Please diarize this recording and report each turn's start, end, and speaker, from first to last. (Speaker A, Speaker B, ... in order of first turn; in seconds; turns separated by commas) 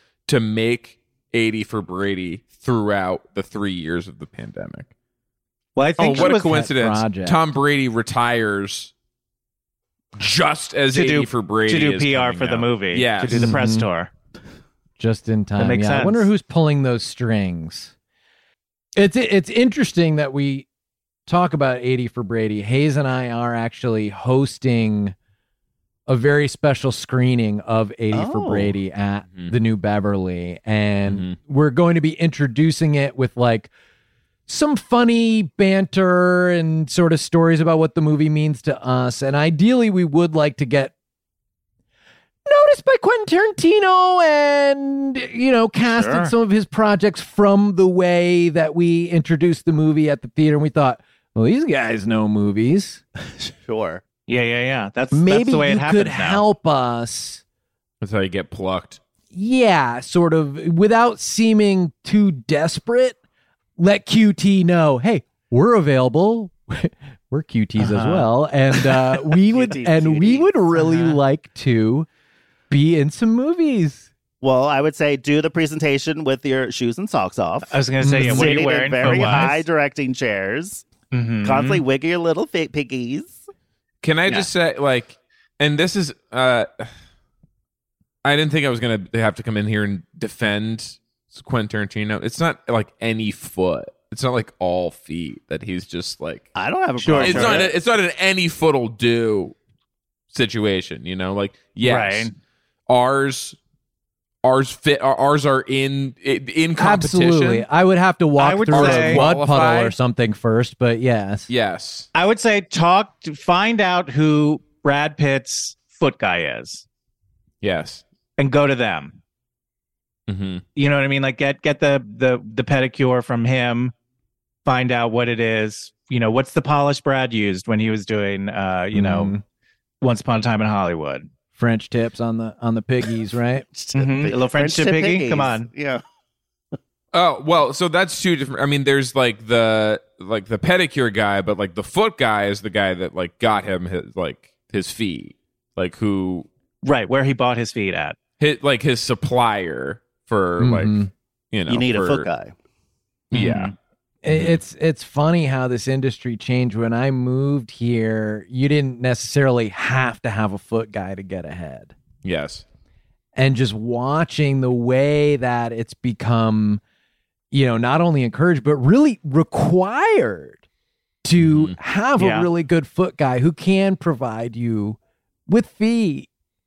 Speaker A: 0.3-4.9, Speaker B: 5.8-6.6, Speaker A: 6.0-8.9, Speaker C: 6.0-7.4, Speaker A: 10.2-13.6, Speaker B: 10.9-14.1, Speaker C: 13.3-13.9, Speaker C: 15.0-17.9, Speaker B: 15.6-16.3, Speaker C: 19.0-20.7, Speaker C: 21.3-25.1, Speaker C: 26.1-33.7, Speaker D: 28.1-28.7, Speaker A: 31.1-31.4, Speaker C: 34.5-40.9, Speaker C: 42.5-53.0, Speaker B: 45.9-46.3, Speaker D: 53.6-54.0, Speaker B: 54.3-56.4, Speaker C: 55.1-57.4, Speaker A: 58.0-59.0, Speaker C: 59.3-63.2, Speaker C: 63.8-72.1, Speaker B: 67.8-69.1, Speaker D: 69.5-70.5, Speaker B: 70.7-71.2, Speaker C: 72.7-74.1, Speaker D: 74.4-80.8, Speaker B: 77.7-79.6, Speaker C: 78.0-78.5, Speaker C: 79.1-79.5, Speaker B: 81.1-81.8, Speaker D: 81.4-83.4, Speaker A: 84.0-86.9, Speaker A: 88.2-96.5, Speaker D: 96.5-97.7, Speaker B: 97.0-97.7, Speaker A: 97.2-99.5, Speaker A: 100.3-102.3, Speaker B: 101.8-102.3, Speaker A: 102.9-103.6, Speaker A: 104.4-107.7, Speaker C: 106.8-111.5, Speaker B: 108.4-109.2, Speaker A: 108.7-110.0, Speaker A: 111.5-112.1, Speaker B: 112.1-116.8, Speaker A: 117.6-118.0, Speaker B: 118.4-119.2, Speaker A: 120.3-120.6, Speaker B: 120.8-123.9, Speaker B: 124.7-129.3, Speaker C: 128.9-129.4, Speaker B: 130.0-131.3, Speaker C: 131.6-133.7, Speaker D: 133.8-136.0, Speaker B: 133.9-135.7, Speaker A: 137.1-146.5, Speaker B: 146.8-148.2, Speaker A: 148.4-152.3, Speaker C: 150.6-151.1, Speaker D: 151.7-152.5, Speaker A: 153.3-153.7, Speaker B: 153.3-153.7, Speaker C: 154.2-161.9, Speaker A: 154.3-154.6, Speaker A: 162.2-162.7, Speaker C: 163.4-166.8, Speaker C: 167.5-170.6, Speaker C: 171.2-176.3, Speaker A: 171.4-171.8, Speaker B: 172.2-172.5